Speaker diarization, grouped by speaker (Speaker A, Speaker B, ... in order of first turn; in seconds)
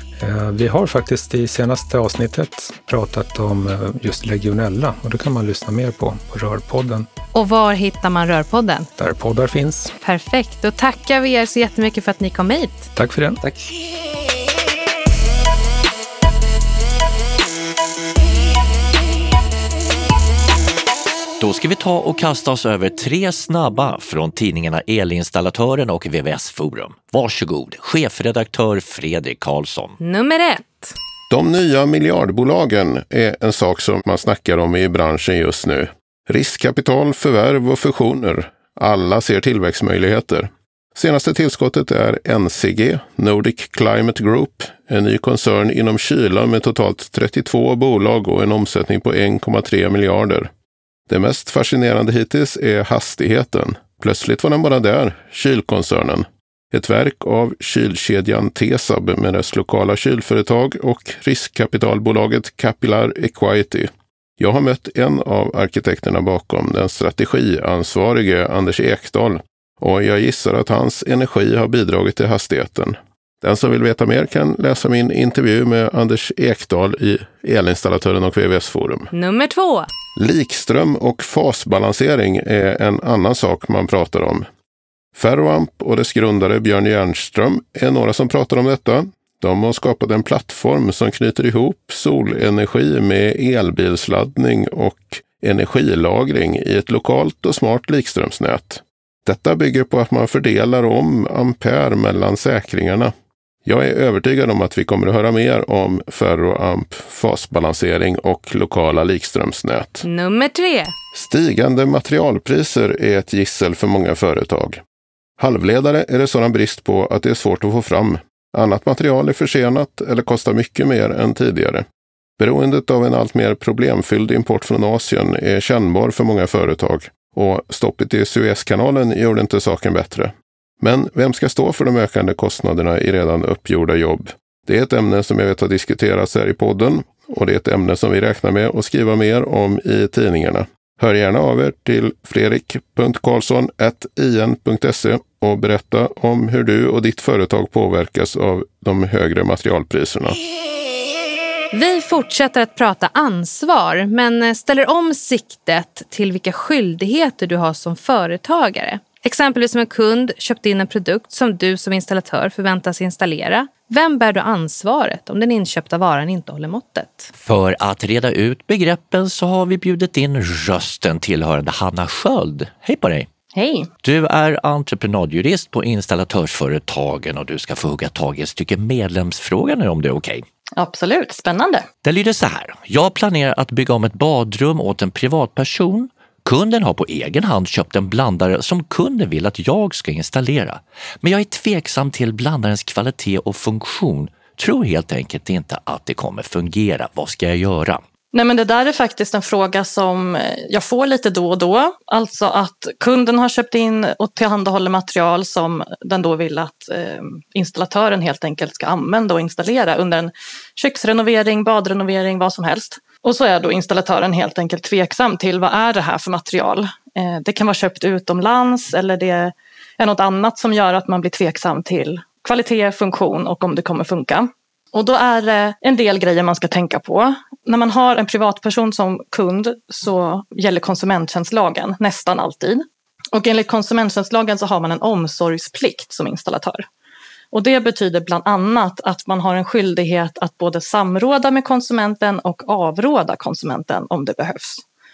Speaker A: 0.2-7.1, 9.0-9.9, 12.9-13.4
Speaker B: 7.3-8.9, 10.0-12.9, 30.0-30.9, 79.1-79.9, 110.0-110.9, 151.7-167.3
Speaker C: 21.4-30.0, 167.3-173.3, 174.0-180.4, 182.0-198.0
Speaker D: 31.3-50.5, 51.1-79.1, 80.2-84.5, 85.1-103.1, 103.6-110.0, 111.1-114.8, 115.4-121.8, 122.4-150.4
Speaker E: 173.5-173.9, 180.8-181.8, 198.3-236.8, 237.5-244.8